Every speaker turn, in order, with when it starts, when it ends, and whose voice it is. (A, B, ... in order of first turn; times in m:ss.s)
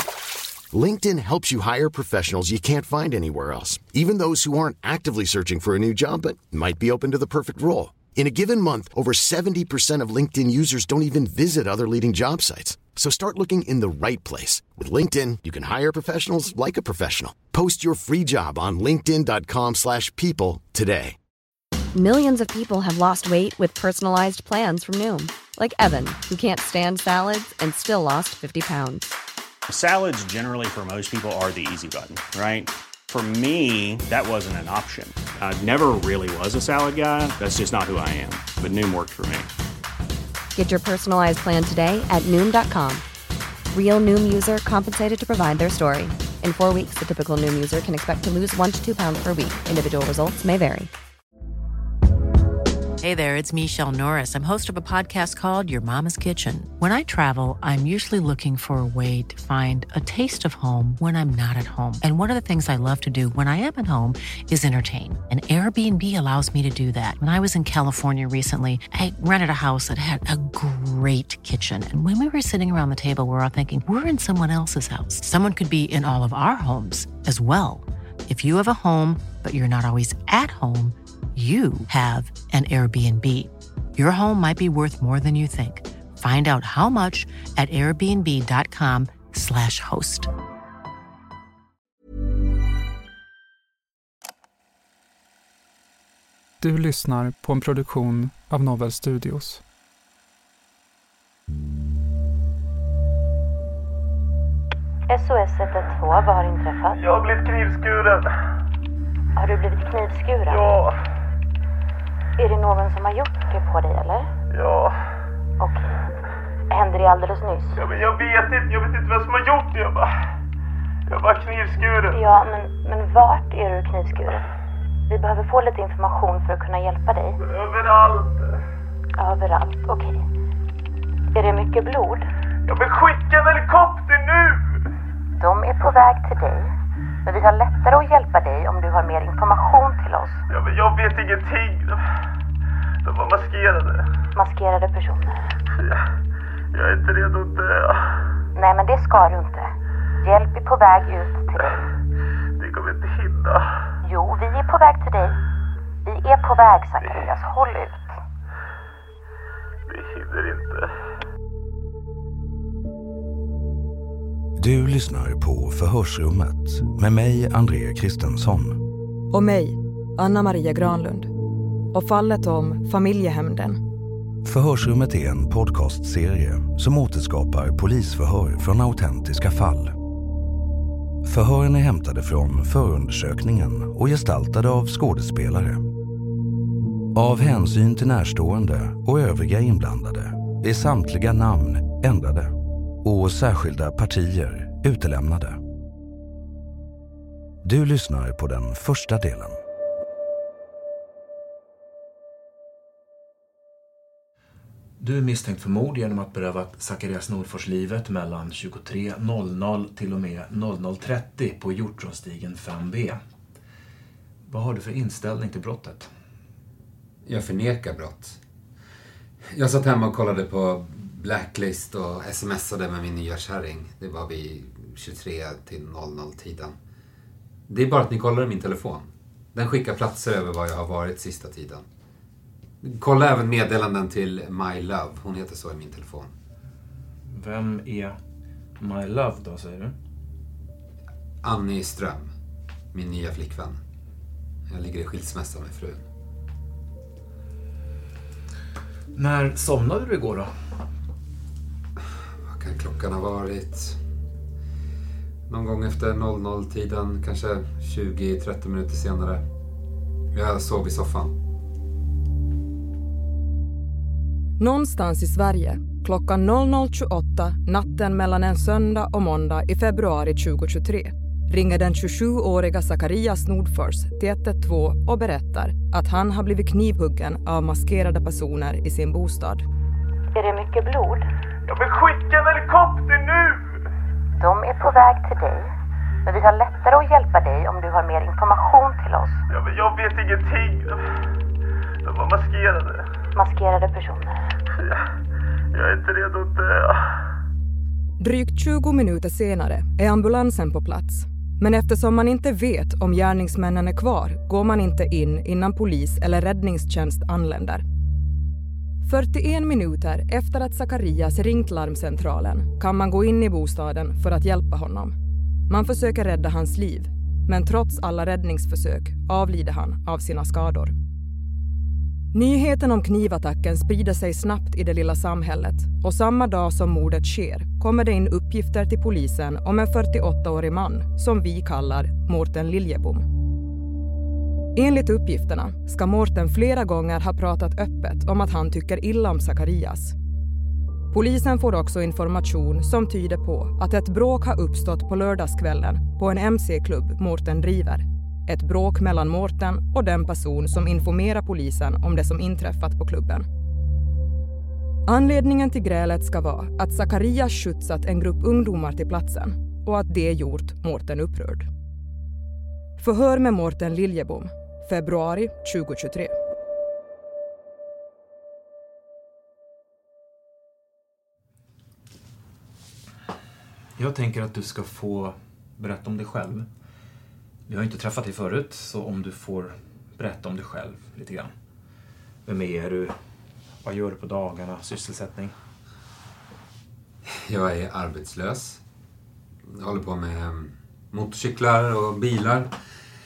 0:00.7-0:21.2 A
0:21.9-0:29.1 B
0:29.7-0:39.5 C
0:40.6-0:43.0 B
0:43.7-0:50.9 B
0:53.0-1:30.3 D
1:36.6-1:39.6 E
1:45.1-1:47.0 F
1:47.0-1:48.3 G
1:49.4-1:50.8 F
1:50.5-1:50.9 G
1:52.4-1:54.3 F
1:54.5-1:54.9 G
1:55.6-1:56.0 F
1:56.7-1:57.8 F
1:57.8-2:00.1 G
2:01.1-2:02.2 G
2:02.1-2:04.5 F
2:05.1-2:07.4 F
2:07.5-2:08.6 G
2:09.2-2:10.2 F
2:11.3-2:12.3 F
2:12.7-2:14.6 G
2:15.4-2:16.7 F
2:17.2-2:20.4 F
2:20.5-2:22.0 G
2:23.0-2:24.0 G
2:24.4-2:25.5 F
2:26.7-2:28.0 G
2:28.6-2:31.8 F
2:32.6-2:33.6 G
2:34.0-2:35.4 F
2:36.0-2:38.2 F
2:39.9-2:40.9 G
2:44.6-2:48.8 H
2:49.3-2:51.3 I
2:51.9-2:53.8 I
2:54.4-3:00.0 H
3:01.2-3:05.8 H
3:07.1-3:15.6 H
3:17.6-3:19.6 H
3:25.0-3:33.2 J
3:34.5-3:36.1 J
3:37.2-3:38.4 K
3:39.5-3:46.8 K
3:47.7-3:51.8 K
3:52.8-3:56.3 K
3:57.3-3:58.2 J
3:58.8-4:00.0 J
4:01.4-4:02.3 K
4:02.9-4:03.8 K
4:04.7-4:06.1 K
4:09.2-4:10.6 J
4:12.4-4:14.0 K
4:15.5-4:19.4 K
4:20.3-4:21.4 K
4:24.6-4:39.6 I
4:40.3-4:41.3 F
4:41.7-4:43.7 G
4:44.4-4:45.7 F
4:46.2-4:49.4 F
4:49.5-4:51.0 G
4:52.0-4:53.1 G
4:53.3-4:54.5 F
4:55.7-4:57.0 G
4:58.2-5:07.8 I
5:09.0-5:15.2 I
5:15.7-5:20.9 I
5:22.3-5:33.2 I
5:34.8-5:40.2 I
5:41.1-5:53.5 I
5:55.1-6:01.7 I
6:03.0-6:06.4 I
6:14.0-6:16.7 J
6:17.7-6:21.5 J
6:22.5-6:23.2 J
6:23.8-6:25.5 J
6:27.2-6:28.8 K
6:29.7-6:32.7 K